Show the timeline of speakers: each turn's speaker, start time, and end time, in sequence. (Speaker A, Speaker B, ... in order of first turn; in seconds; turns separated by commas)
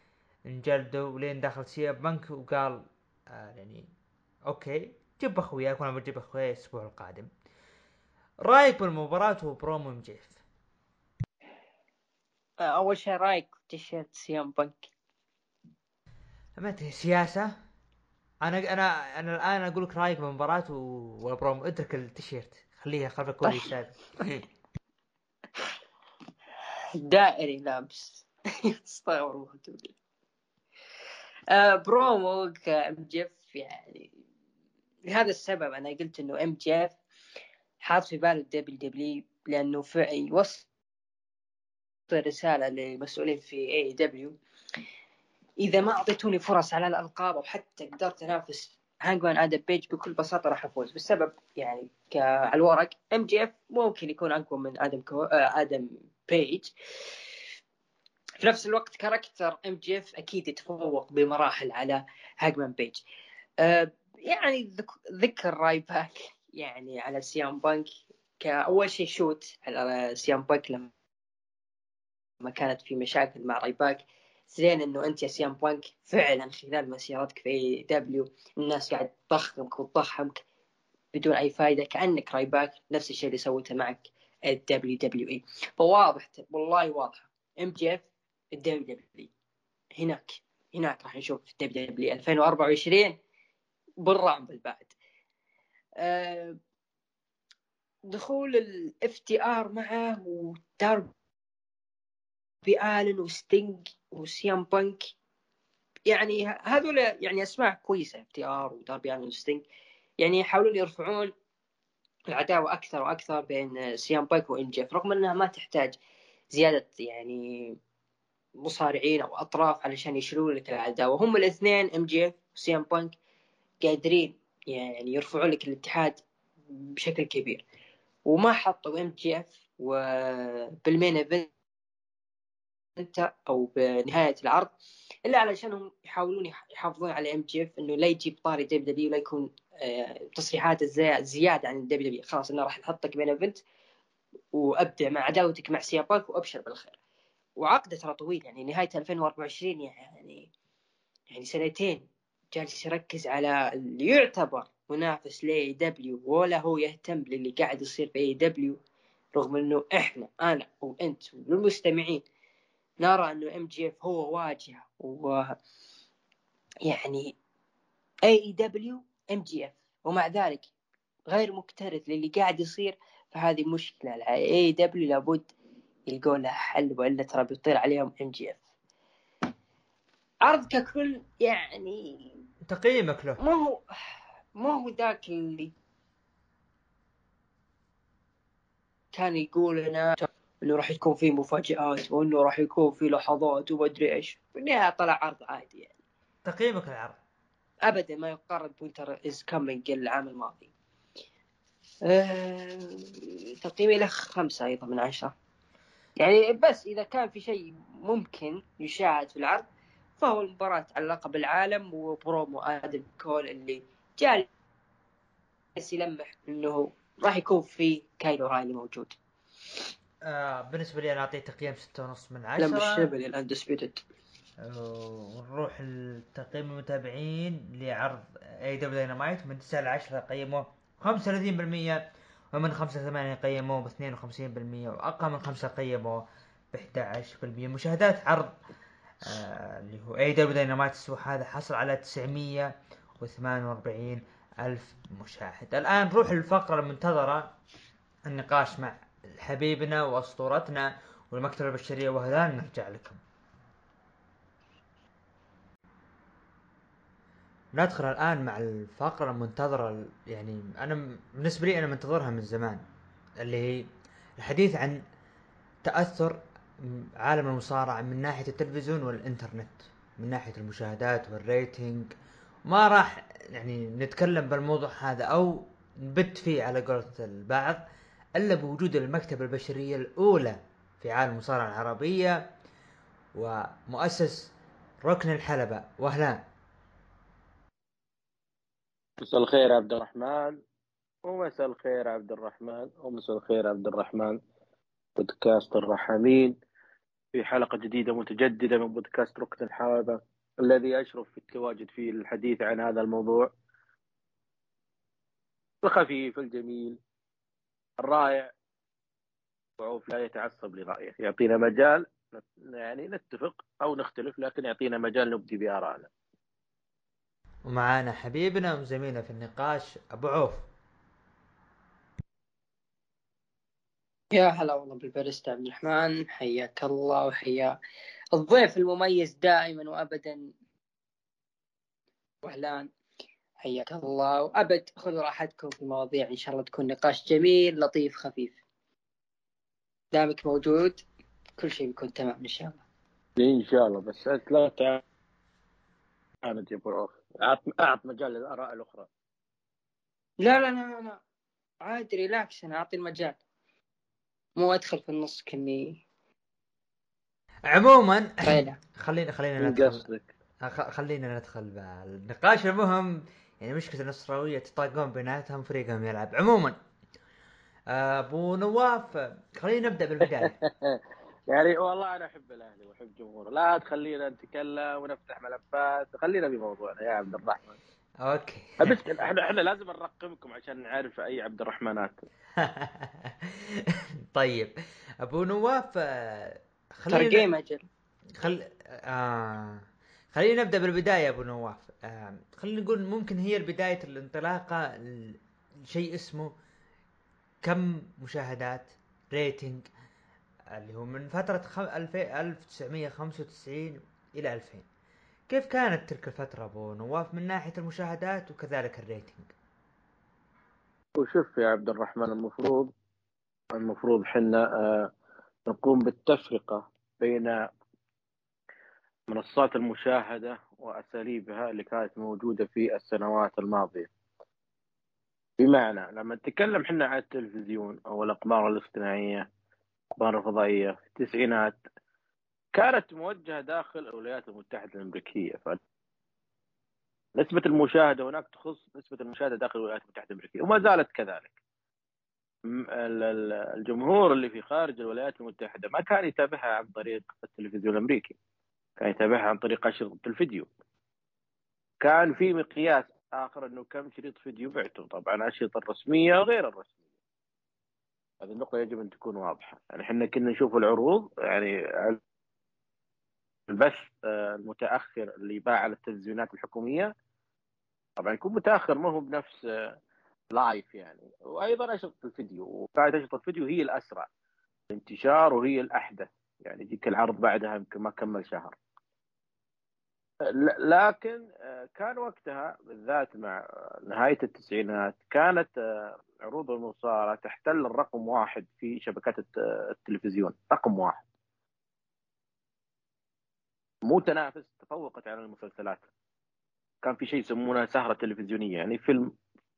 Speaker A: 0.5-3.9, Speaker A: 4.5-7.3, Speaker A: 8.4-10.4, Speaker B: 12.6-14.9, Speaker A: 16.6-17.5, Speaker A: 18.4-24.4, Speaker B: 27.0-29.9, Speaker B: 31.5-34.1, Speaker B: 35.1-37.0, Speaker B: 37.8-40.6, Speaker B: 42.1-44.4, Speaker B: 45.6-57.1, Speaker B: 58.4-63.0, Speaker B: 63.6-70.9, Speaker B: 72.4-80.4, Speaker B: 81.1-89.3, Speaker B: 90.0-93.2, Speaker B: 94.0-95.0, Speaker B: 96.0-96.6, Speaker B: 98.1-101.1, Speaker B: 102.6-105.1, Speaker B: 106.1-109.6, Speaker B: 110.2-111.3, Speaker B: 112.3-116.0, Speaker B: 116.5-117.8, Speaker B: 118.6-123.2, Speaker B: 123.8-127.6, Speaker B: 128.2-131.5, Speaker B: 133.0-134.7, Speaker B: 135.2-143.6, Speaker B: 144.5-147.0, Speaker B: 147.6-150.5, Speaker B: 151.3-158.8, Speaker B: 159.3-162.2, Speaker B: 163.0-165.6, Speaker B: 166.8-167.3, Speaker B: 168.2-170.7, Speaker B: 171.3-175.5, Speaker B: 176.1-178.6, Speaker B: 180.4-182.3, Speaker A: 182.7-183.4, Speaker B: 183.4-183.8, Speaker B: 184.6-185.7, Speaker B: 189.1-195.9, Speaker A: 196.4-197.2, Speaker B: 197.8-200.7, Speaker B: 202.1-205.3, Speaker B: 206.2-209.6, Speaker B: 210.2-214.5, Speaker B: 215.8-219.2, Speaker A: 220.2-223.1, Speaker B: 222.6-224.0, Speaker A: 224.6-238.5, Speaker A: 239.2-247.5, Speaker A: 248.2-253.2, Speaker A: 257.8-262.8, Speaker A: 263.4-263.9, Speaker A: 264.4-265.0, Speaker A: 265.8-272.1, Speaker A: 272.7-277.8, Speaker A: 278.4-282.4, Speaker A: 283.3-284.5, Speaker A: 285.0-286.4, Speaker C: 289.2-290.6, Speaker C: 291.2-294.4, Speaker C: 295.2-296.5, Speaker C: 297.3-303.5, Speaker C: 305.8-307.0, Speaker C: 308.0-308.5, Speaker C: 309.8-316.1, Speaker A: 317.7-320.7, Speaker B: 324.3-327.7, Speaker B: 328.3-330.5, Speaker B: 332.4-332.9, Speaker B: 333.6-338.6, Speaker B: 340.1-341.0, Speaker B: 341.6-342.8, Speaker C: 343.4-345.0, Speaker C: 346.4-349.1, Speaker B: 350.4-351.2, Speaker B: 351.8-353.4, Speaker B: 354.6-356.0, Speaker A: 357.7-360.0, Speaker B: 358.4-358.8, Speaker C: 359.6-360.3, Speaker A: 360.6-366.8, Speaker A: 367.9-370.5, Speaker C: 370.3-377.8, Speaker A: 378.2-379.0, Speaker C: 378.8-382.2, Speaker A: 382.6-384.7, Speaker A: 385.2-387.5, Speaker B: 387.1-387.8, Speaker A: 388.4-396.5, Speaker A: 397.6-399.9, Speaker A: 400.7-404.9, Speaker A: 405.5-409.5, Speaker C: 411.2-412.9, Speaker C: 413.7-415.1, Speaker C: 415.7-417.6, Speaker C: 419.3-424.1, Speaker C: 425.6-429.5, Speaker C: 430.2-431.8, Speaker C: 432.7-435.8, Speaker C: 437.4-441.5, Speaker C: 442.7-448.4, Speaker C: 449.0-450.7, Speaker C: 452.0-456.9, Speaker C: 458.4-462.2, Speaker C: 463.7-467.1, Speaker C: 468.2-469.9, Speaker C: 470.5-474.3, Speaker C: 474.9-478.8, Speaker C: 480.4-491.2, Speaker C: 494.0-496.1, Speaker C: 497.0-499.3